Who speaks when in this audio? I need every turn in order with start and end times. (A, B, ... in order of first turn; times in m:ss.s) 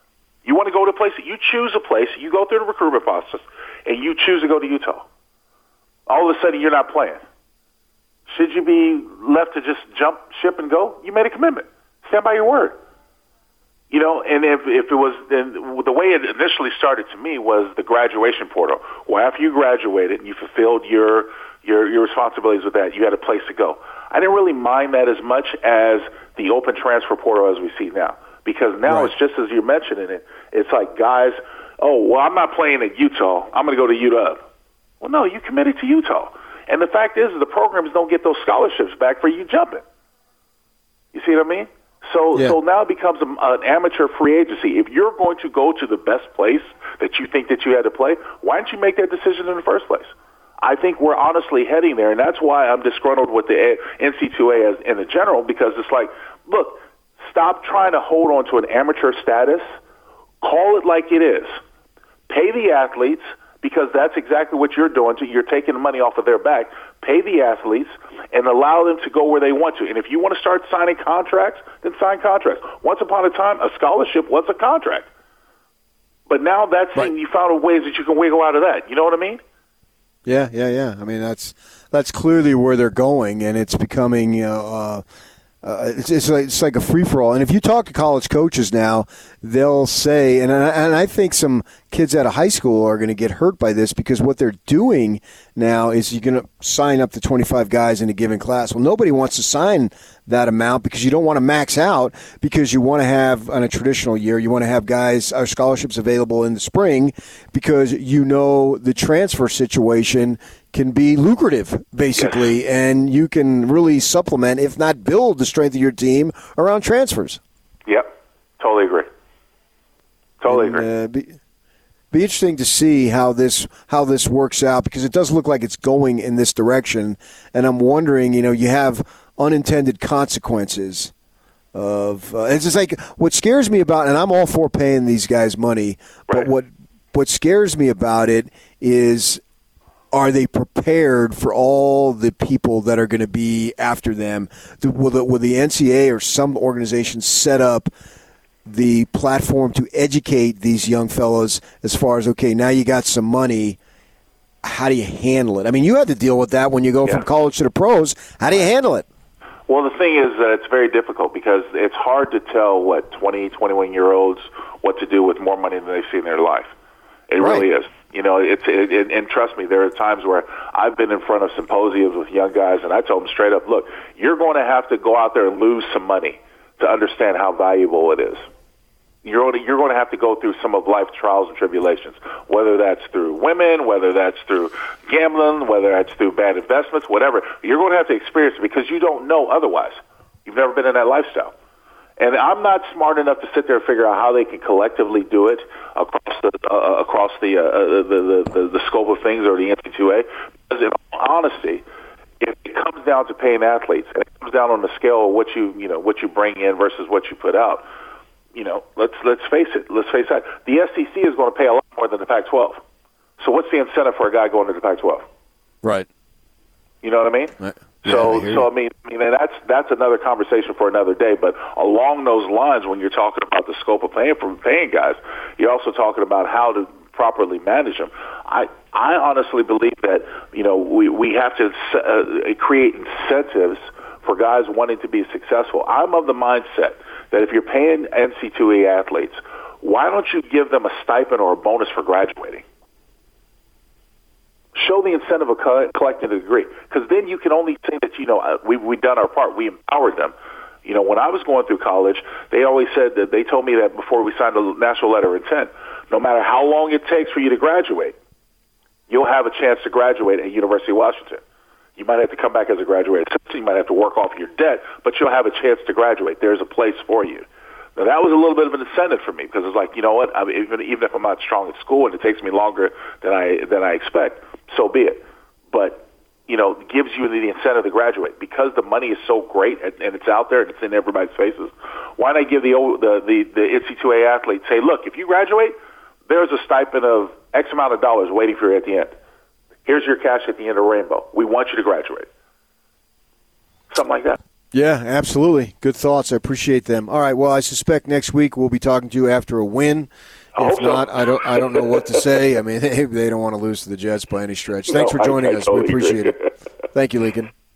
0:00.4-0:05.1 A
0:06.1-0:07.2 A
0:08.3-0:12.8 A
0:13.9-0:34.4 A
0:28.9-0:29.1 B
0:35.0-0:39.8 A
0:41.1-0:50.1 A
0:50.6-0:59.6 A
1:00.4-1:01.6 A
1:02.3-1:15.1 A
1:16.3-1:19.4 A
1:20.3-1:25.0 B
1:25.6-1:57.4 B
1:52.2-1:52.5 A
1:58.6-1:59.1 A
2:00.4-2:00.9 A
2:00.5-2:01.4 B
2:02.1-2:11.1 B
2:11.7-2:19.4 B
2:20.1-2:27.9 B
2:28.7-2:33.8 B
2:34.6-2:39.1 B
2:39.7-2:46.7 A
2:47.3-2:58.5 A
2:47.4-2:47.7 B
2:59.2-3:11.5 A
3:12.2-3:21.8 A
3:22.4-3:27.8 A
3:28.5-3:32.8 A
3:33.4-3:35.2 A
3:37.0-4:02.6 A
3:37.6-3:38.7 B
4:04.7-4:10.3 A
4:10.8-4:18.2 A
4:19.1-4:21.4 A
4:22.0-4:45.7 A
4:46.3-4:49.1 A
4:49.9-4:52.3 A
4:53.9-4:54.4 A
4:54.7-5:06.4 B
5:00.6-5:02.1 A
5:04.9-5:06.5 A
5:06.9-5:07.5 B